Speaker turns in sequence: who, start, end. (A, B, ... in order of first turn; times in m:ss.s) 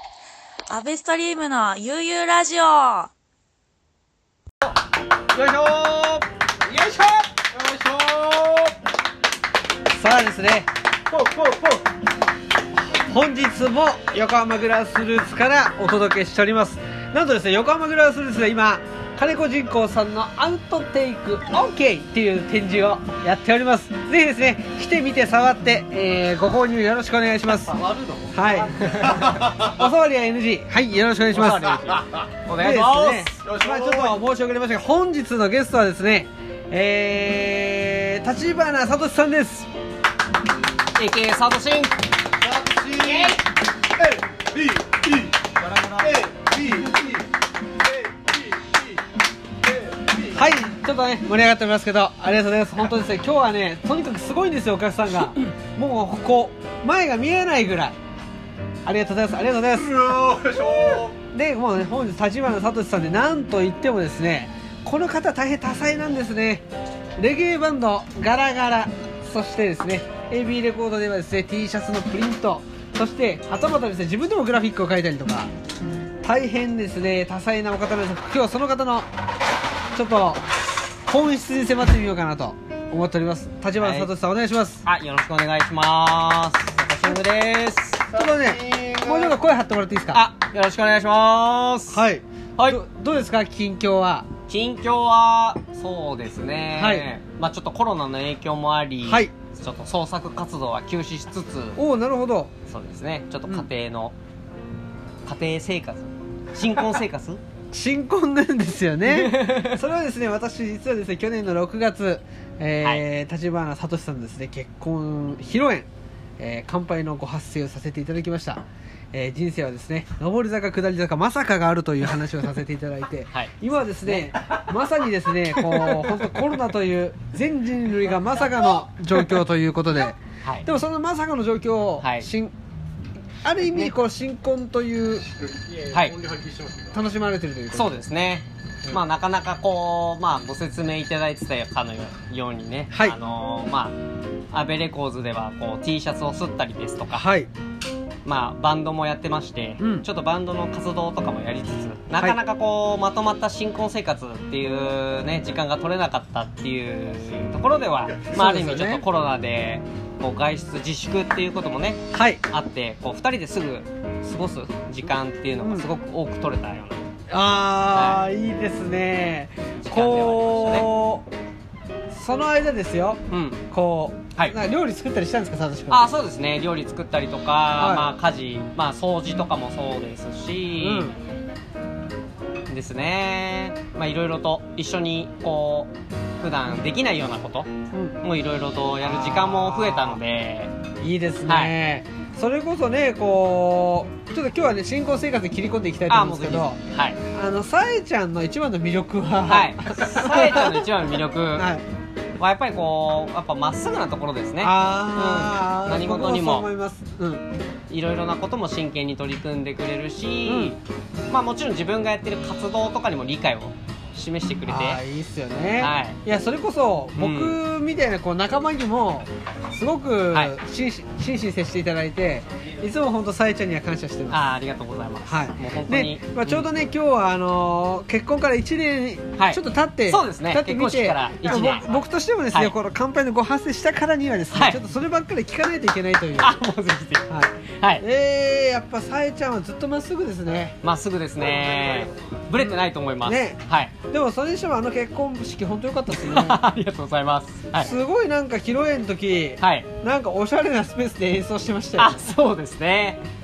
0:00.7-0:03.1 A
0:05.3-0:06.2 B
0:06.6-0:08.7 C
0:09.9-0:10.7 D
0:11.1-0:11.8 C
0:12.8-0:27.8 D
0:27.7-0:29.7 C
0:28.3-0:31.8 D
0:31.3-0:33.3 B
0:31.8-0:34.2 C
0:32.6-0:39.7 D
0:40.9-0:42.0 B
0:42.4-0:43.4 C
0:43.0-0:43.4 B
0:44.0-0:47.2 C
0:47.8-0:49.0 C
0:49.6-0:50.4 C
0:50.2-0:57.9 D
0:58.8-1:06.6 D
0:59.8-1:01.1 C
1:07.2-1:15.5 D
1:16.2-1:19.1 D
1:19.9-1:24.8 D
1:23.8-1:24.1 B
1:24.8-1:28.0 B
1:28.1-1:29.3 C
1:28.1-1:30.2 D
1:30.1-1:32.0 B
1:31.9-1:34.2 D
1:34.5-1:41.8 B
1:36.7-1:37.1 D
1:39.0-1:39.3 D
1:41.8-1:42.5 D
1:42.7-1:44.1 B
1:45.2-1:47.4 B
1:47.7-1:55.9 D
1:49.0-1:49.8 B
1:56.4-2:12.5 D
2:03.3-2:04.3 B
2:05.7-2:06.1 B
2:10.4-2:10.7 B
2:12.0-2:12.3 B
2:13.4-2:15.3 D
2:15.5-2:17.0 C
2:16.9-2:18.0 D
2:17.7-2:24.0 B
2:22.9-2:23.2 D
2:24.5-2:27.3 B
2:27.1-2:27.5 D
2:28.2-2:47.0 B
2:29.8-2:30.1 D
2:38.3-2:39.0 D
2:42.1-2:42.4 D
2:45.6-2:45.9 D
2:47.3-2:51.2 D
2:47.9-2:48.3 B
2:49.8-2:50.9 B
2:52.1-2:56.0 D
2:53.3-2:53.6 B
2:55.9-3:01.1 B
2:57.8-2:58.1 D
3:00.8-3:01.1 D
3:02.7-3:10.7 B
3:09.0-3:10.2 D
3:11.0-3:16.8 D
3:11.4-3:11.7 B
3:16.1-3:17.2 B
3:17.3-3:20.9 D
3:19.5-3:21.7 B
3:21.5-3:21.8 D
3:22.4-3:26.7 B
3:24.6-3:27.4 D
3:27.9-3:35.0 B
3:30.4-3:30.8 D
3:34.6-3:44.4 D
3:35.8-3:36.2 B
3:37.2-3:37.6 B
3:44.3-3:46.7 B
3:45.3-3:56.6 D
3:49.4-3:51.9 B
3:54.5-3:54.8 B
3:56.4-3:58.0 B
3:57.3-4:00.8 D
4:00.8-4:03.9 B
4:02.6-4:06.6 D
4:06.1-4:07.9 B
4:07.7-4:12.3 D
4:09.6-4:09.9 B
4:12.0-4:13.2 B